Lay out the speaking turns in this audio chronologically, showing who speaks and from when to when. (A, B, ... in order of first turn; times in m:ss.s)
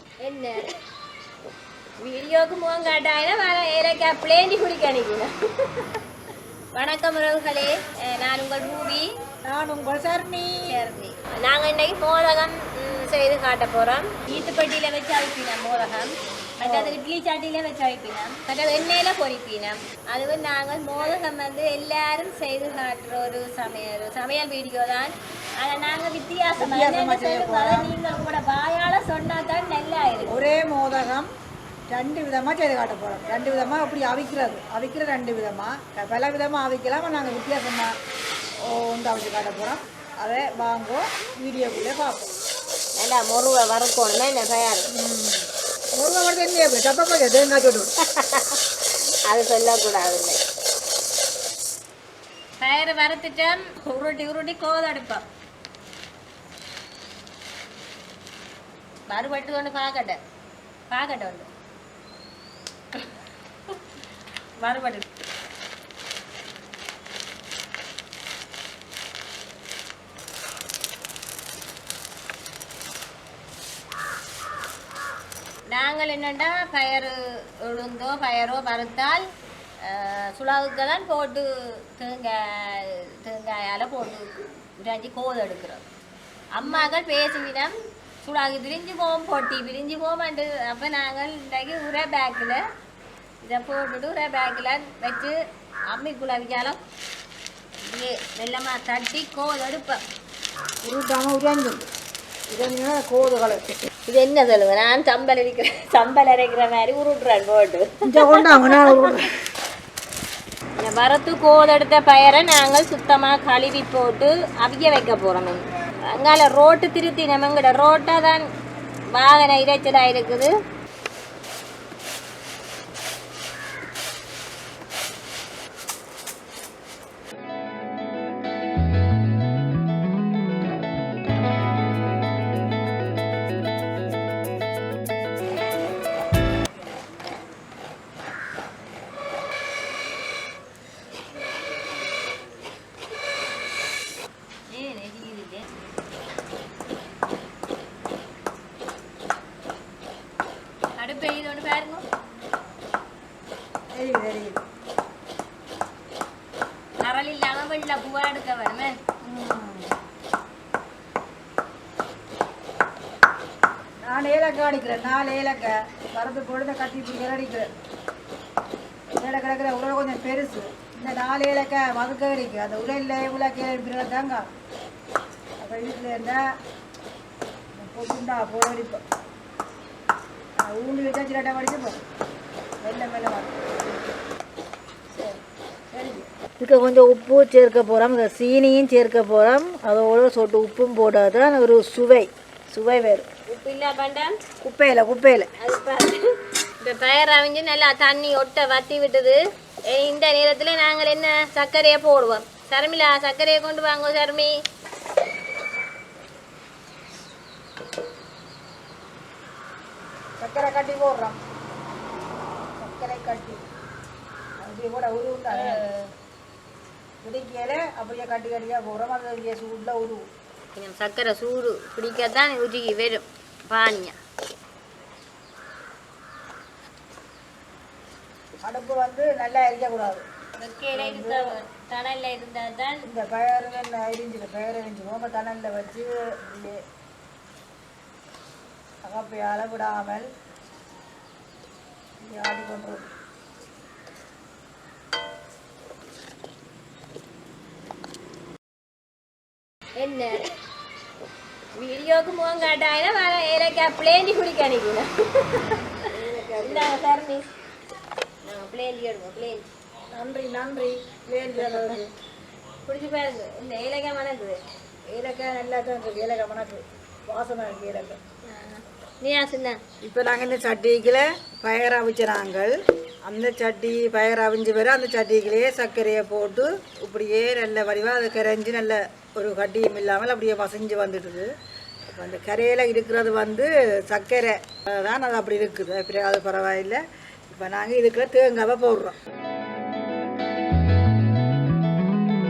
0:00.2-0:00.7 A
0:02.0-0:06.0 A
0:06.7-0:09.1 A
0:09.4-0:10.7 B
0:10.6-0:30.4 A
0:16.6-0:17.0 B
0:26.6-0:27.9 B
0:30.3-0:31.3 B
0:31.9-0:37.9 B
0:38.6-0:42.3 B
0:43.0-0:44.9 A
0:44.9-0:45.5 B
0:46.0-0:47.9 B
0:48.0-0:50.4 A
0:52.6-0:55.2 A
0:59.1-1:00.2 A
1:00.9-1:01.5 A
1:04.6-1:05.1 A
1:15.7-1:19.3 A
1:19.8-1:25.8 A
1:26.6-1:32.6 A
1:33.4-1:35.3 A
1:35.9-1:36.8 A
1:37.8-1:40.0 A
1:40.8-1:41.9 B
1:42.5-1:43.7 B
1:44.1-1:49.0 A
1:48.1-1:49.3 B
1:50.8-1:58.4 A
1:59.1-2:00.5 A
2:24.7-2:25.7 A
2:31.0-2:32.0 A
2:34.0-2:34.6 B
2:37.0-2:39.0 A
2:39.2-2:39.9 B
2:44.1-2:47.7 B
2:49.2-2:54.4 B
2:55.6-2:56.4 B
2:57.8-2:59.0 B
3:00.6-3:02.0 B
3:02.8-3:03.9 B
3:05.1-3:05.4 B
3:05.9-3:13.3 B
3:13.5-3:14.4 A
3:14.6-3:15.5 B
3:15.6-3:16.3 A
3:16.8-3:24.6 A
3:30.4-3:31.4 B
3:32.8-3:33.6 B
3:34.6-3:35.8 B
3:35.5-3:36.1 A
3:37.2-3:40.2 B
3:40.8-3:44.2 A
3:48.6-3:50.2 B
3:50.6-3:53.0 A
3:50.9-3:51.5 B
3:53.1-3:56.8 B
3:59.0-4:00.2 B
4:02.2-4:03.1 B
4:10.0-4:10.4 A
4:11.8-4:15.9 A
4:16.1-4:17.0 B
4:16.6-4:17.4 A
4:18.4-4:19.7 A
4:20.1-4:22.1 B
4:21.5-4:22.0 A
4:22.9-4:24.6 A
4:25.1-4:28.2 B
4:28.5-4:29.8 A
4:30.0-4:32.7 B
4:33.2-4:41.5 B
4:42.1-4:49.2 B